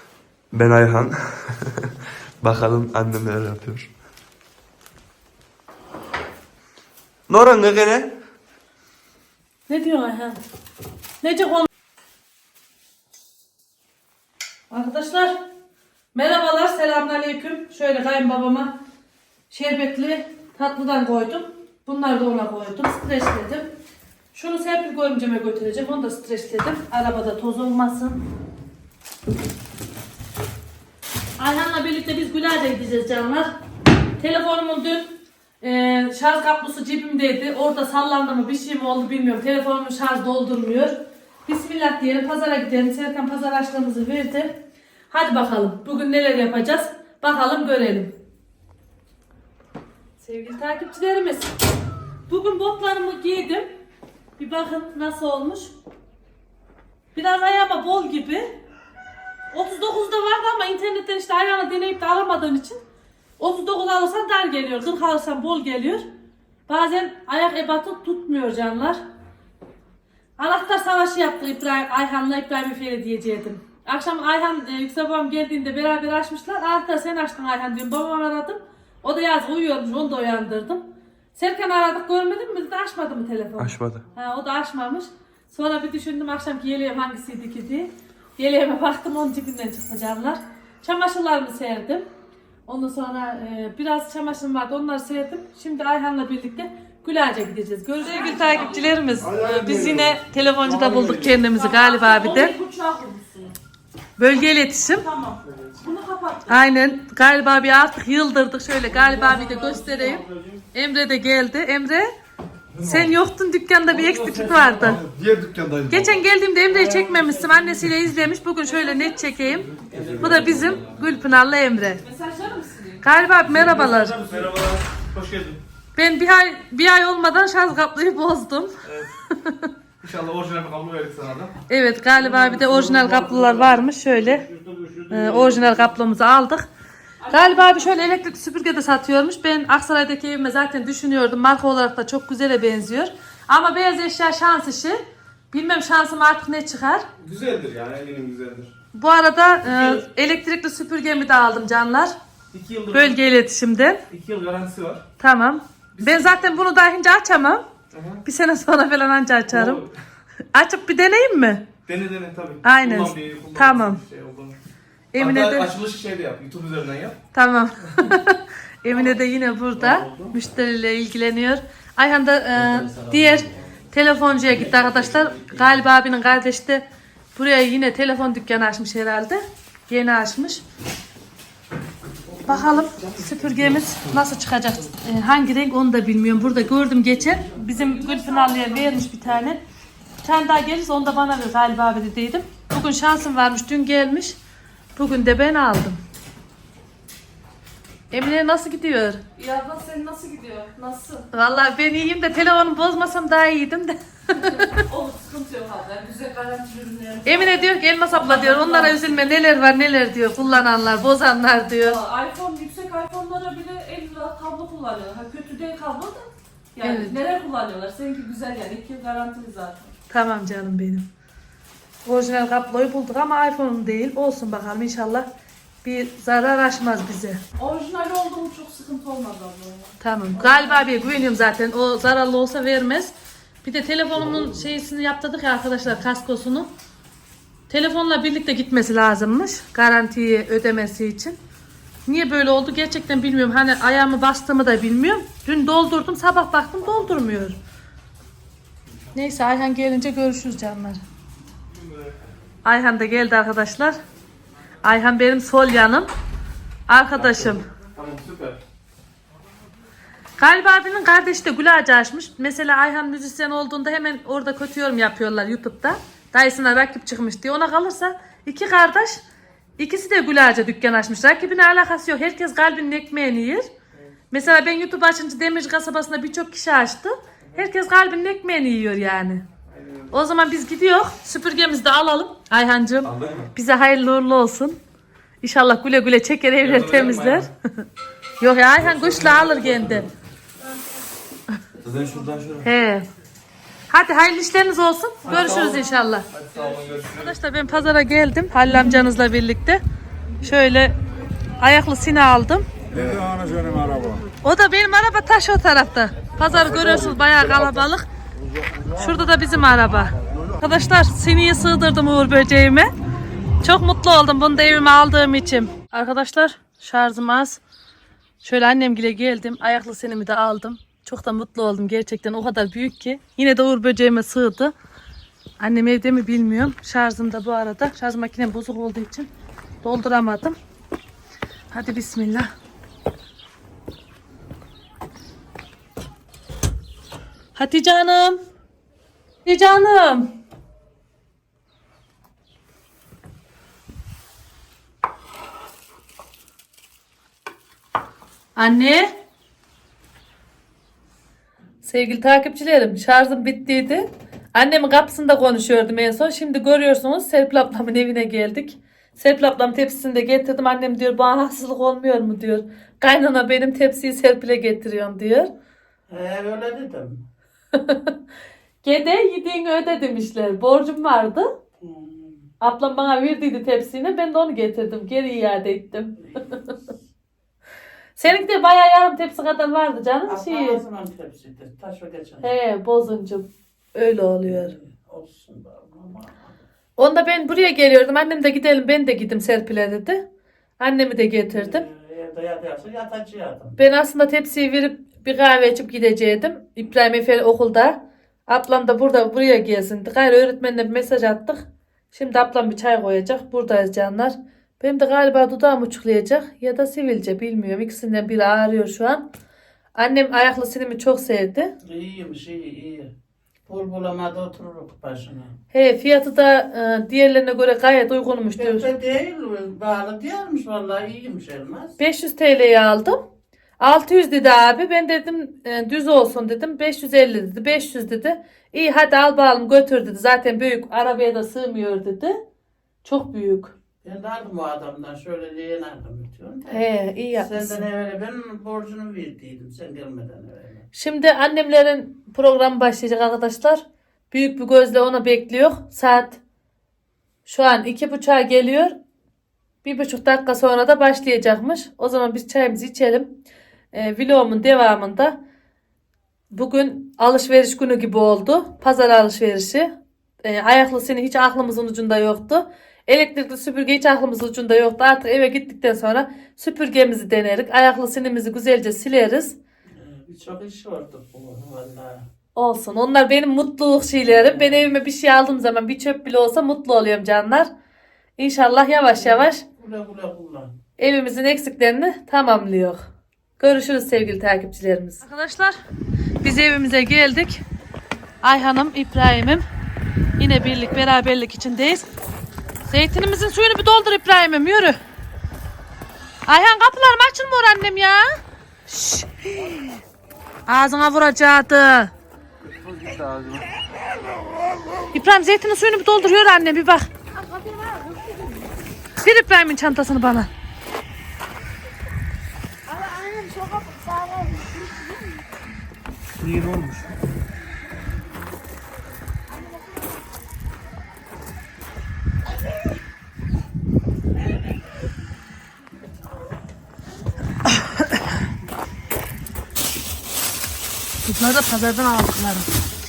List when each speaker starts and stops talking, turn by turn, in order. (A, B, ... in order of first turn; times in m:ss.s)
0:00.5-0:03.9 A
0:07.3-0:08.1 A
0:09.7-0:10.4 B
0:11.2-0:11.7 B
0:14.7-0:15.4 B
0:16.1-0:18.7 B
0:19.5-0:23.7 B
0:24.3-0:28.2 B
0:31.4-0:33.5 B
0:34.2-0:41.0 B
0:41.5-0:44.5 B
0:45.1-0:48.1 B
0:50.2-0:51.5 B
0:52.3-0:53.7 B
0:54.4-0:55.7 B
0:57.2-0:58.6 B
0:59.5-1:02.8 B
1:03.4-1:06.0 B
1:06.7-1:09.0 B
1:10.4-1:32.1 B
1:23.6-1:24.1 A
1:32.7-1:42.5 B
1:38.0-1:39.0 C
1:39.4-1:39.8 D
1:40.9-1:41.2 D
1:41.4-1:43.5 C
1:44.2-1:45.1 B
1:45.0-1:46.6 C
1:46.5-1:52.1 B
1:48.9-1:50.6 D
1:52.8-1:55.0 B
1:54.0-1:56.0 D
1:55.9-2:02.0 B
1:56.8-1:57.4 D
1:58.7-1:59.8 C
1:59.8-2:01.1 D
2:00.0-2:00.4 A
2:02.0-2:03.0 C
2:03.0-2:04.2 B
2:03.5-2:05.6 D
2:06.0-2:08.8 B
2:08.8-2:09.1 D
2:09.3-2:09.7 B
2:10.0-2:11.6 D
2:11.7-2:14.5 B
2:12.2-2:13.8 D
2:14.4-2:15.8 D
2:15.1-2:16.7 B
2:17.2-2:18.2 C
2:17.3-2:25.0 B
2:25.5-2:27.1 B
2:27.2-2:28.7 D
2:29.0-2:32.1 B
2:29.7-2:30.0 D
2:32.5-2:33.2 D
2:32.9-2:34.0 B
2:34.1-2:35.0 D
2:35.2-2:37.7 B
2:36.0-2:36.5 D
2:37.9-2:38.2 D
2:38.2-2:39.8 B
2:39.5-2:39.9 D
2:40.5-2:41.7 B
2:41.9-2:44.6 D
2:42.6-2:44.0 B
2:45.1-2:45.7 B
2:45.2-2:47.2 D
2:47.3-3:00.6 B
2:49.8-2:50.3 D
2:52.7-2:53.4 A
3:02.3-3:04.0 D
3:02.5-3:09.6 B
3:07.6-3:09.1 C
3:10.2-3:14.4 B
3:15.0-3:16.0 B
3:18.1-3:19.2 B
3:19.4-3:21.3 C
3:21.3-3:24.8 B
3:24.4-3:29.2 C
3:27.3-3:32.0 B
3:31.8-3:40.0 C
3:36.8-3:37.2 B
3:40.1-3:41.1 B
3:42.0-3:45.3 B
3:45.8-3:47.4 B
3:47.6-3:51.2 C
3:50.0-3:53.1 B
3:53.6-3:56.7 B
3:57.7-4:01.4 B
4:02.1-4:07.6 B
4:09.2-4:11.0 B
4:11.7-4:12.1 D
4:12.6-4:14.0 B
4:14.8-4:16.1 B
4:16.9-4:17.6 B
4:17.2-4:18.6 D
4:20.4-4:29.2 B
4:29.8-4:33.7 B
4:34.3-4:39.4 B
4:39.7-4:40.1 D
4:40.1-4:44.8 B
4:43.0-4:43.5 A
4:45.4-4:47.8 B
4:46.6-4:47.5 D
4:48.4-4:50.1 B
4:48.8-4:50.1 D
4:51.8-4:52.7 A
4:52.6-4:53.1 B
4:53.9-4:56.3 B
4:55.2-4:57.3 D
4:57.1-4:59.8 B
5:00.4-5:01.0 B
5:01.6-5:02.7 B
5:03.0-5:03.3 D
5:04.4-5:08.1 B
5:08.9-5:12.9 B
5:13.6-5:17.6 B
5:18.4-5:24.7 B
5:25.6-5:29.3 B
5:29.8-5:30.6 B
5:31.7-5:32.5 B
5:37.6-5:38.4 B
5:39.4-5:40.3 B
5:48.6-5:49.1 B
5:51.8-6:05.5 B
6:06.1-6:07.2 E
6:07.8-6:08.1 B
6:08.8-6:11.5 B
6:11.8-6:12.4 E
6:12.6-6:16.6 B
6:16.2-6:16.6 E
6:18.2-6:20.8 B
6:20.3-6:22.5 E
6:22.4-6:24.8 B
6:24.4-6:26.6 E
6:27.0-6:30.2 B
6:30.8-6:31.9 B
6:31.5-6:33.8 E
6:33.8-6:41.6 B
6:42.1-6:49.3 B
6:50.0-6:51.7 B
6:51.8-6:53.1 E
6:53.7-6:55.5 E
6:55.7-6:58.9 B
6:58.6-7:02.0 E
7:02.0-7:03.2 B
7:03.8-7:12.4 B
7:13.0-7:13.7 B
7:14.0-7:20.8 E
7:16.7-7:17.8 B
7:20.9-7:26.4 B
7:27.5-7:29.0 B
7:29.8-7:33.3 B
7:33.9-7:35.4 B
7:36.5-7:39.9 B
7:40.4-7:49.6 B
7:50.0-7:52.2 E
7:52.6-7:57.7 B
7:54.2-7:55.0 E
7:58.4-7:59.6 B
7:59.2-8:00.7 E
8:01.0-8:03.0 B
8:03.6-8:05.8 B
8:06.4-8:07.6 B
8:08.4-8:09.6 B
8:10.4-8:12.1 B
8:12.9-8:15.0 B
8:16.5-8:18.3 B
8:18.9-8:19.9 B
8:20.7-8:22.1 B
8:25.1-8:27.1 B
8:29.2-8:30.5 B
8:36.4-8:37.0 A
8:51.2-8:52.7 B